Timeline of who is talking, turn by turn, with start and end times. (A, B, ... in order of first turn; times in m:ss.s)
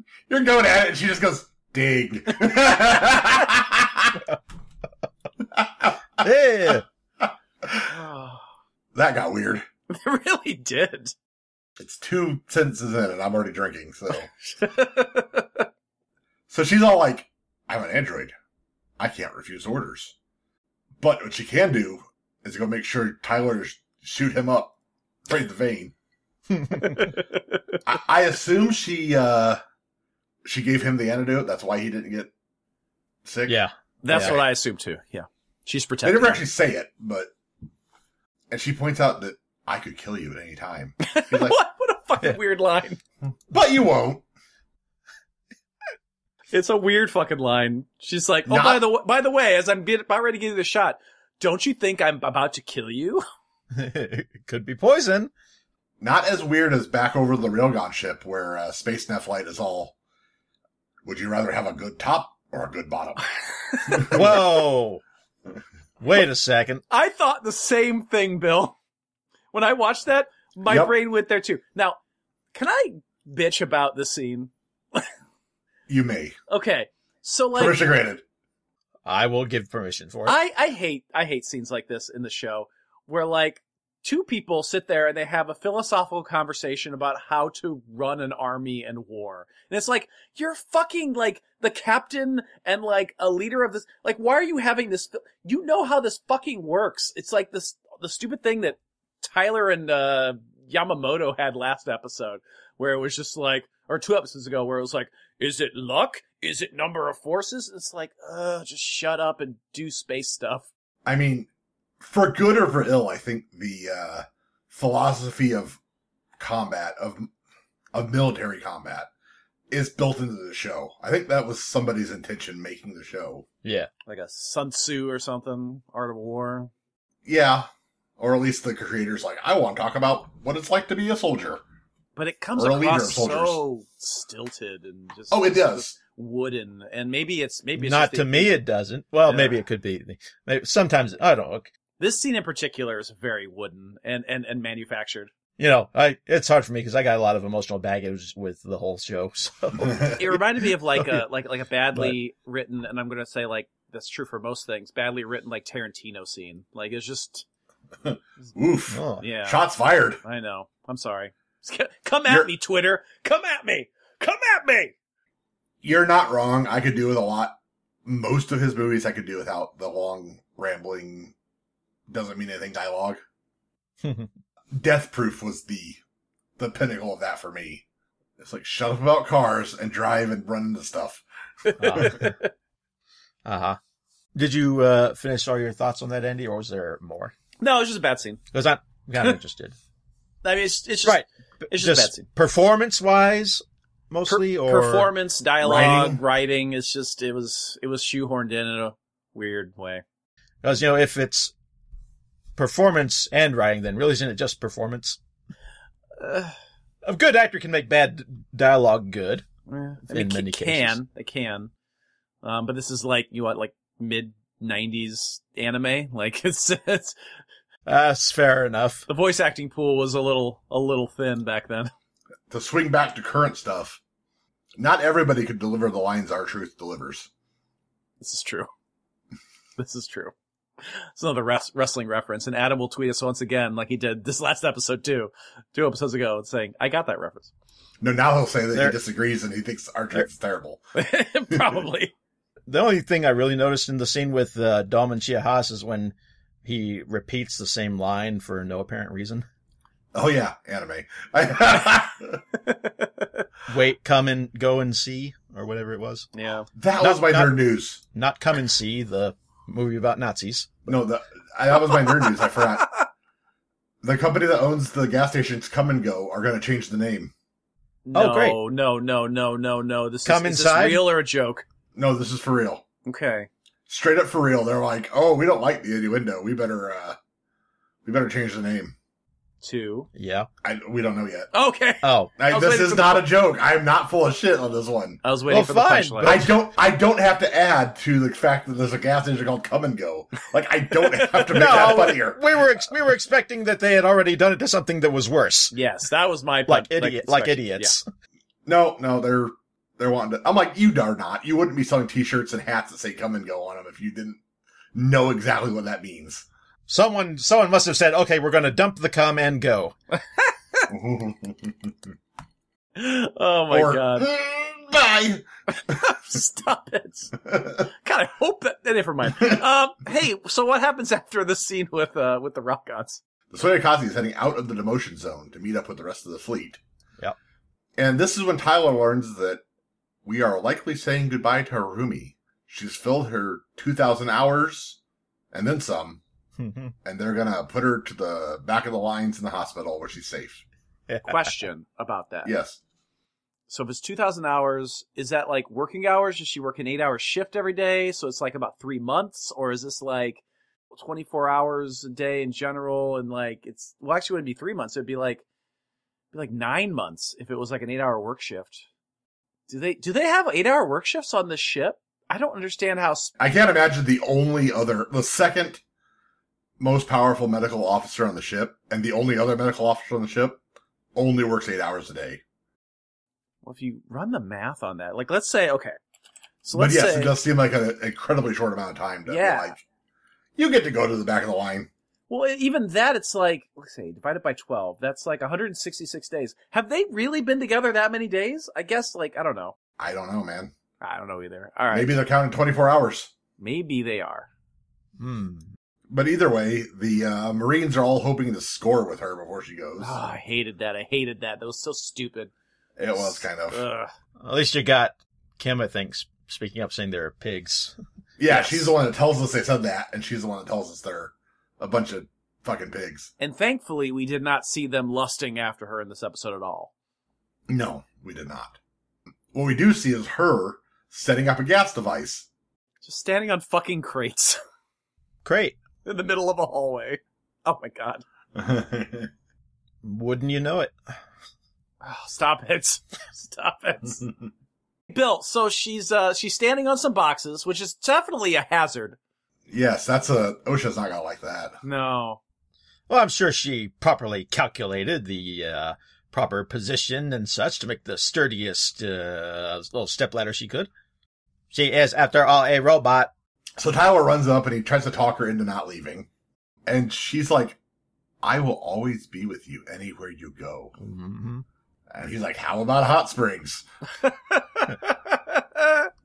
0:00.3-0:04.2 A
0:05.6-0:06.2 A
0:06.2-0:06.8 B
0:07.2-0:07.9 A
0:07.9-0:08.4 C
0:08.9-0:09.6 A
0:09.9-0:11.1 C
0:11.8-0:14.3 A
0:14.4-0:15.7 C
0:16.5-0:18.3 A
0:19.0-0:20.1 A
0:21.0-0:24.7 A
0:25.3-0:25.9 A
0:26.8-0:27.4 C
0:27.8-0:29.6 A
0:30.4-0:32.3 A
0:33.2-0:34.4 A
0:33.4-0:34.4 B
0:34.0-0:36.4 C
0:36.0-0:37.3 A
0:38.5-0:41.6 A
0:41.0-0:43.0 C
0:43.5-0:44.2 A
0:46.5-0:53.2 C
0:48.5-0:48.8 A
0:53.7-0:55.3 B
0:56.0-0:59.9 A
1:01.0-1:03.3 A
1:03.8-1:04.2 C
1:03.9-1:04.5 A
1:04.1-1:05.0 B
1:06.0-1:06.8 B
1:06.9-1:08.7 C
1:09.5-1:12.0 C
1:10.6-1:10.9 A
1:12.5-1:15.1 C
1:15.9-1:16.4 A
1:16.5-1:17.8 C
1:17.6-1:18.2 A
1:19.0-1:20.4 B
1:20.2-1:50.7 C
1:51.0-1:51.5 A
1:52.0-1:55.8 A
1:56.4-1:57.3 A
1:57.9-1:59.1 A
1:59.7-2:03.4 A
2:03.6-2:03.9 B
2:04.1-2:06.7 C
2:07.2-2:07.7 A
2:08.2-2:11.6 A
2:12.2-2:18.5 C
2:12.6-2:13.6 A
2:15.3-2:15.9 A
2:17.8-2:21.7 B
2:19.2-2:19.6 C
2:22.0-2:25.3 C
2:25.6-2:31.2 B
2:30.2-2:37.4 C
2:38.0-2:40.2 A
2:38.9-2:39.2 B
2:39.2-2:39.6 C
2:40.2-2:44.9 C
2:45.8-2:51.3 A
2:52.1-2:53.2 A
2:54.0-2:54.3 B
2:54.7-2:56.0 A
2:56.6-2:57.8 A
2:58.4-3:01.2 A
3:01.6-3:02.5 C
3:01.8-3:02.4 B
3:03.4-3:03.8 B
3:04.3-3:07.3 B
3:07.6-3:08.4 C
3:08.5-3:09.8 B
3:10.4-3:12.3 C
3:11.0-3:15.1 B
3:14.3-3:20.0 C
3:15.6-3:16.2 A
3:20.6-3:21.5 B
3:22.6-3:25.2 B
3:26.2-3:26.5 C
3:27.0-3:29.4 B
3:29.7-3:31.7 C
3:30.1-3:31.0 B
3:32.4-3:37.2 C
3:37.8-3:39.0 B
3:39.1-3:41.9 C
3:42.5-3:44.0 A
3:44.8-3:47.3 A
3:48.2-3:48.7 C
3:49.8-3:50.3 C
3:51.2-3:57.5 C
3:58.0-4:00.8 A
4:00.9-4:02.1 C
4:02.7-4:09.4 B
4:10.1-4:12.4 A
4:12.6-4:13.4 C
4:13.7-4:16.3 B
4:16.3-4:16.7 C
4:16.8-4:18.0 A
4:17.0-4:17.5 B
4:18.1-4:20.9 B
4:20.9-4:22.9 A
4:21.9-4:22.2 C
4:24.0-4:27.3 A
4:28.0-4:31.6 C
4:28.1-4:28.6 B
4:30.2-4:31.1 B
4:31.9-4:32.8 A
4:33.0-4:33.5 C
4:33.9-4:37.2 A
4:38.0-4:38.9 A
4:39.6-4:40.1 C
4:40.1-4:40.5 B
4:40.6-4:41.5 A
4:41.5-4:43.3 C
4:42.0-4:42.3 B
4:42.4-4:45.2 A
4:45.2-4:46.4 C
4:45.5-4:46.6 B
4:46.2-4:52.6 A
4:51.5-4:55.7 B
4:55.7-4:58.0 C
4:56.7-4:58.1 B
4:58.6-5:04.4 A
5:04.9-5:06.4 A
5:06.9-5:09.9 B
5:10.9-5:11.9 A
5:13.0-5:14.3 C
5:13.7-5:15.4 A
5:15.7-5:17.4 C
5:17.9-5:23.2 C
5:23.5-5:26.8 A
5:28.0-5:29.6 A
5:30.2-5:35.0 A
5:35.5-5:36.2 A
5:36.6-5:36.9 B
5:37.0-5:40.6 A
5:41.1-5:41.5 B
5:41.2-5:42.5 C
5:42.4-5:42.8 A
5:43.7-5:50.4 C
5:50.9-5:55.4 C
5:56.3-5:58.8 C
5:59.7-6:03.3 C
6:03.4-6:05.8 A
6:06.8-6:10.6 A
6:11.1-6:12.4 A
6:13.6-6:16.0 C
6:16.6-6:17.3 C
6:16.7-6:19.8 A
6:19.2-6:19.7 C
6:20.6-6:21.9 A
6:22.3-6:29.7 C
6:30.0-6:30.7 A
6:31.0-6:32.2 C
6:31.9-6:33.3 A
6:33.6-6:34.5 C
6:35.2-6:35.7 B
6:36.1-6:40.2 A
6:40.0-6:42.5 C
6:43.0-6:43.8 A
6:43.1-6:44.1 C
6:44.4-6:47.9 B
6:48.4-6:53.3 A
6:48.5-6:48.9 B
6:53.4-6:56.9 C
6:57.7-6:58.8 A
6:59.5-7:02.5 A
7:03.0-7:04.6 C
7:05.4-7:05.8 B
7:06.0-7:08.2 C
7:08.6-7:09.3 A
7:10.0-7:10.9 B
7:12.0-7:14.2 C
7:15.1-7:19.2 C
7:19.7-7:21.8 A
7:21.8-7:22.4 C
7:23.1-7:30.9 B
7:31.7-7:33.3 B
7:33.8-7:36.3 A
7:36.8-7:37.8 A
7:38.4-7:40.9 A
7:41.0-7:41.6 B
7:42.1-7:43.8 A
7:44.2-7:46.1 C